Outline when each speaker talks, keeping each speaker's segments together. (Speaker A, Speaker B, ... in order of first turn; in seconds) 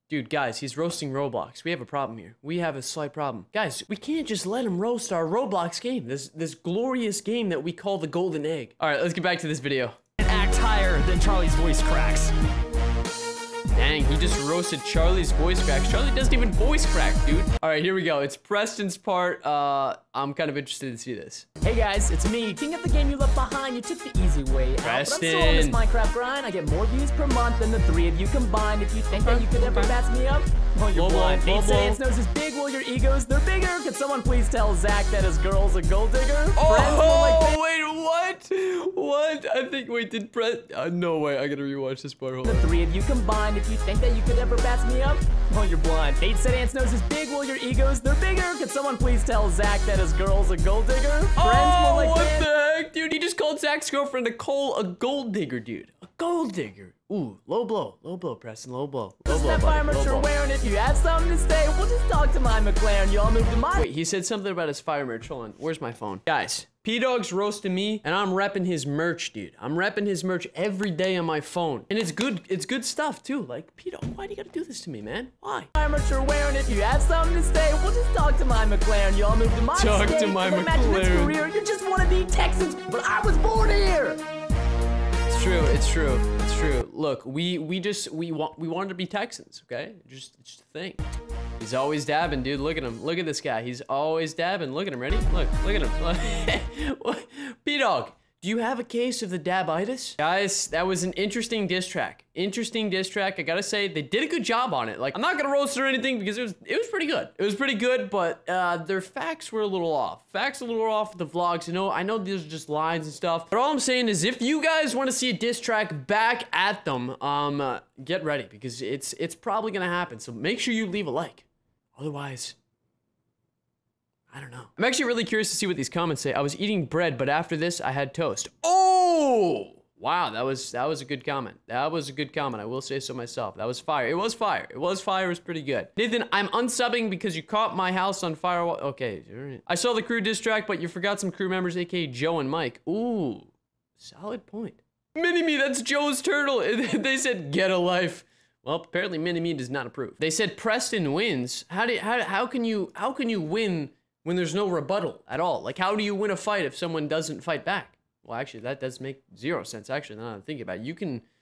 Speaker A: 0.1-10.0, 13.7-21.5, 24.8-25.8, 29.2-29.9, 30.9-32.0, 36.6-42.7, 51.4-60.3, 63.7-75.7, 79.7-81.4, 85.3-91.0, 91.6-122.6, 124.3-161.2
Speaker B: 10.2-12.3
Speaker C: 21.6-37.6, 42.5-52.5, 59.3-63.9, 75.8-84.2